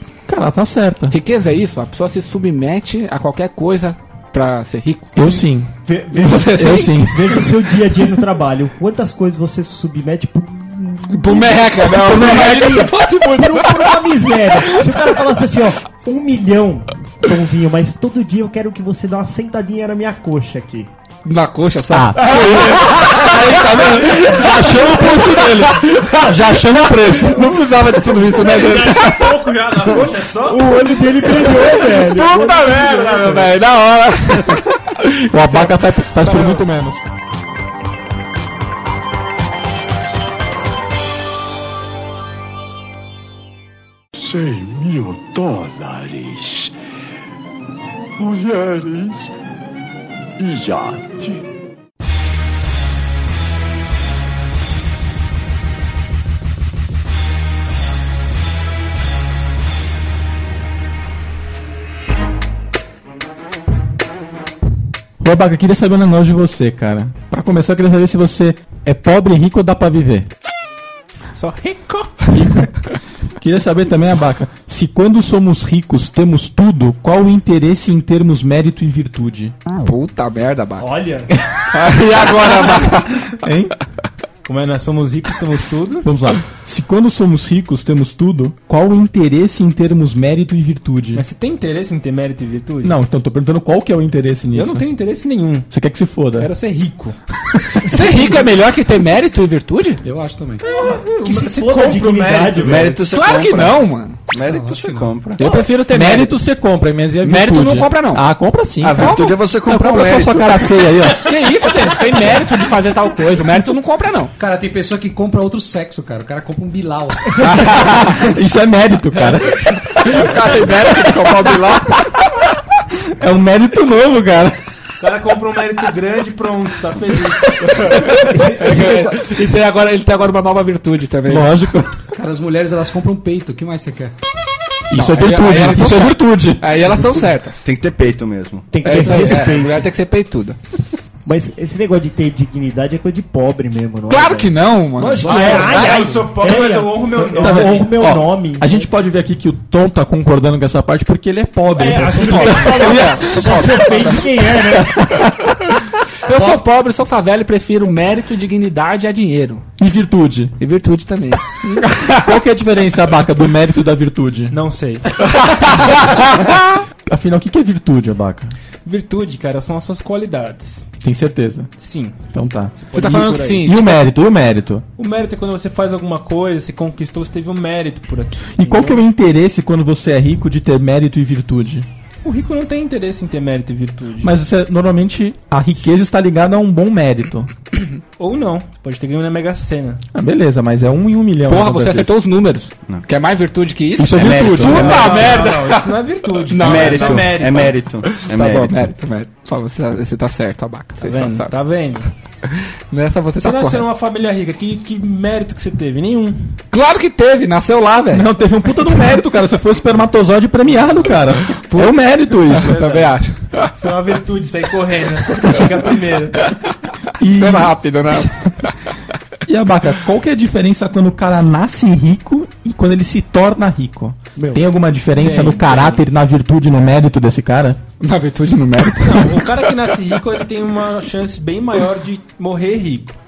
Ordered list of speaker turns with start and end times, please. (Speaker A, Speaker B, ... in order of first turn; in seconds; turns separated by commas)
Speaker A: 0.3-1.2, Speaker B: 1.1-5.4, Speaker A: 5.1-7.5, Speaker C: 5.9-20.9, Speaker B: 6.2-7.1, Speaker B: 11.1-14.1, Speaker B: 21.2-26.3, Speaker A: 21.9-27.5, Speaker C: 22.2-22.9, Speaker B: 26.9-29.6, Speaker D: 28.3-30.8, Speaker C: 30.4-33.5, Speaker B: 31.3-36.6, Speaker D: 33.1-33.4, Speaker A: 35.3-37.0, Speaker E: 44.1-46.7, Speaker E: 48.2-49.3, Speaker E: 50.4-51.4, Speaker A: 65.2-70.3, Speaker D: 71.3-72.4, Speaker A: 72.3-72.7, Speaker A: 73.4-79.5, Speaker B: 79.8-80.9, Speaker D: 80.8-81.2, Speaker B: 81.7-83.4, Speaker A: 83.4-83.7, Speaker D: 84.5-86.1, Speaker A: 86.0-91.2, Speaker D: 91.1-93.0, Speaker A: 92.8-94.8, Speaker D: 94.5-95.7, Speaker A: 95.7-96.5, Speaker D: 96.4-97.2, Speaker B: 97.8-100.0, Speaker F: 100.0-100.6, Speaker D: 100.6-103.0, Speaker C: 100.7-103.0, Speaker G: 102.6-105.5, Speaker B: 103.1-104.2, Speaker F: 104.4-105.1, Speaker B: 105.4-106.3, Speaker A: 105.8-111.3, Speaker B: 107.2-108.2, Speaker G: 108.8-110.7, Speaker B: 109.0-109.4, Speaker B: 111.2-114.3, Speaker F: 114.4-117.3, Speaker A: 117.4-119.7, Speaker B: 117.4-118.0, Speaker B: 119.9-122.1, Speaker A: 123.1-124.6, Speaker D: 125.0-128.1, Speaker B: 127.9-131.5, Speaker C: 128.1-129.6, Speaker A: 131.3-132.0, Speaker F: 132.1-134.1, Speaker A: 134.9-136.9, Speaker B: 134.9-137.6, Speaker G: 137.6-138.7, Speaker C: 138.7-139.9, Speaker B: 138.8-140.6, Speaker C: 141.2-148.9, Speaker B: 144.1-145.8, Speaker D: 145.1-147.9, Speaker A: 147.4-153.6, Speaker C: 151.8-155.1, Speaker B: 152.2-154.4, Speaker A: 154.7-155.6, Speaker B: 156.2-159.6, Speaker C: 156.3-156.6, Speaker A: 159.8-160.5, Speaker B: 160.6-162.2, Speaker A: 162.1-164.6, Speaker D: 164.5-165.0, Speaker A: 165.3-168.5, Speaker D: 168.8-170.9, Speaker A: 171.0-171.7, Speaker D: 171.8-172.2, Speaker A: 172.3-174.8, Speaker D: 172.8-173.7, Speaker B: 172.9-174.0, Speaker D: 175.0-179.0, Speaker A: 178.5-181.9, Speaker D: 182.2-184.3, Speaker A: 184.2-187.5, Speaker D: 188.2-190.0, Speaker A: 190.1-192.1, Speaker B: 191.5-197.4, Speaker A: 194.0-194.9, Speaker G: 194.2-195.5, Speaker D: 194.7-197.8, Speaker G: 196.6-198.9, Speaker B: 198.0-201.5, Speaker D: 201.0-202.1, Speaker B: 202.5-203.8, Speaker D: 203.4-206.6, Speaker B: 206.7-208.3, Speaker A: 208.1-212.9, Speaker B: 211.4-213.7, Speaker D: 212.6-213.1, Speaker D: 213.8-216.4, Speaker A: 217.2-217.8, Speaker B: 217.2-218.7, Speaker A: 219.5-227.8, Speaker C: 224.4-224.6, Speaker D: 225.1-226.0, Speaker B: 228.0-229.7, Speaker D: 229.0-233.2